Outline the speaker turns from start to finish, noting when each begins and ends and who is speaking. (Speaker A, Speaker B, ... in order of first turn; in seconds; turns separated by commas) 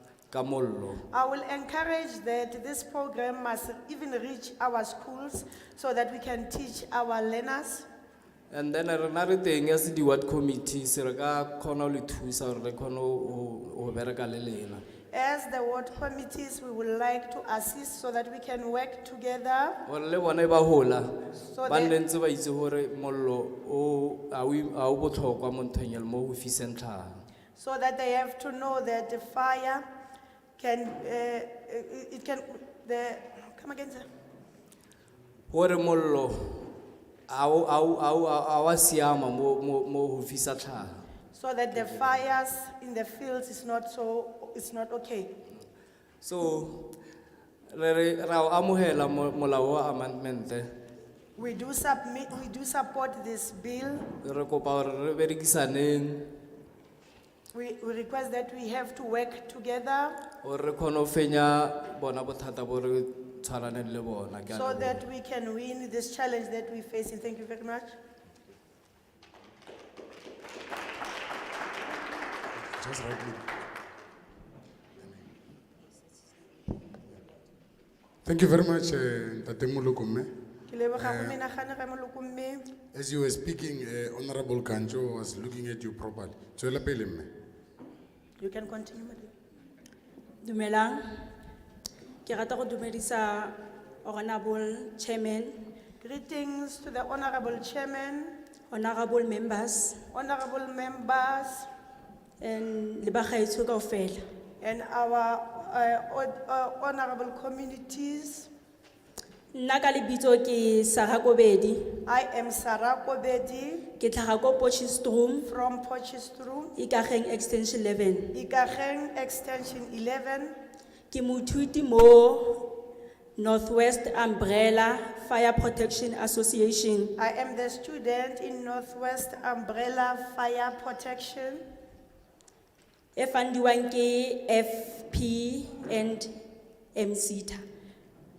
Speaker A: 0.3-1.1, Speaker B: 1.1-7.8, Speaker A: 8.5-14.8, Speaker B: 15.1-19.8, Speaker A: 19.9-21.1, Speaker B: 21.5-21.9, Speaker A: 21.6-27.2, Speaker B: 27.6-29.8, Speaker B: 30.6-34.0, Speaker A: 35.5-36.7, Speaker A: 37.3-41.0, Speaker B: 41.3-45.3, Speaker A: 46.2-47.0, Speaker A: 47.7-50.7, Speaker B: 51.4-54.1, Speaker A: 54.2-56.3, Speaker B: 57.5-60.2, Speaker A: 60.4-65.0, Speaker B: 64.5-67.9, Speaker C: 72.6-73.4, Speaker C: 78.2-80.3, Speaker B: 80.7-82.6, Speaker C: 81.0-81.3, Speaker C: 82.9-87.3, Speaker B: 88.4-89.3, Speaker D: 90.4-91.0, Speaker D: 92.2-95.5, Speaker B: 96.0-98.3, Speaker D: 98.7-100.0, Speaker B: 100.1-101.7, Speaker D: 102.4-104.2, Speaker B: 104.6-108.5, Speaker D: 109.5-111.9, Speaker B: 112.0-113.9, Speaker D: 114.0-115.5, Speaker B: 115.4-116.7, Speaker D: 116.8-118.3, Speaker B: 118.3-120.5, Speaker D: 121.1-122.8, Speaker D: 123.4-127.1, Speaker B: 127.2-131.6, Speaker D: 133.2-136.3, Speaker D: 136.9-137.6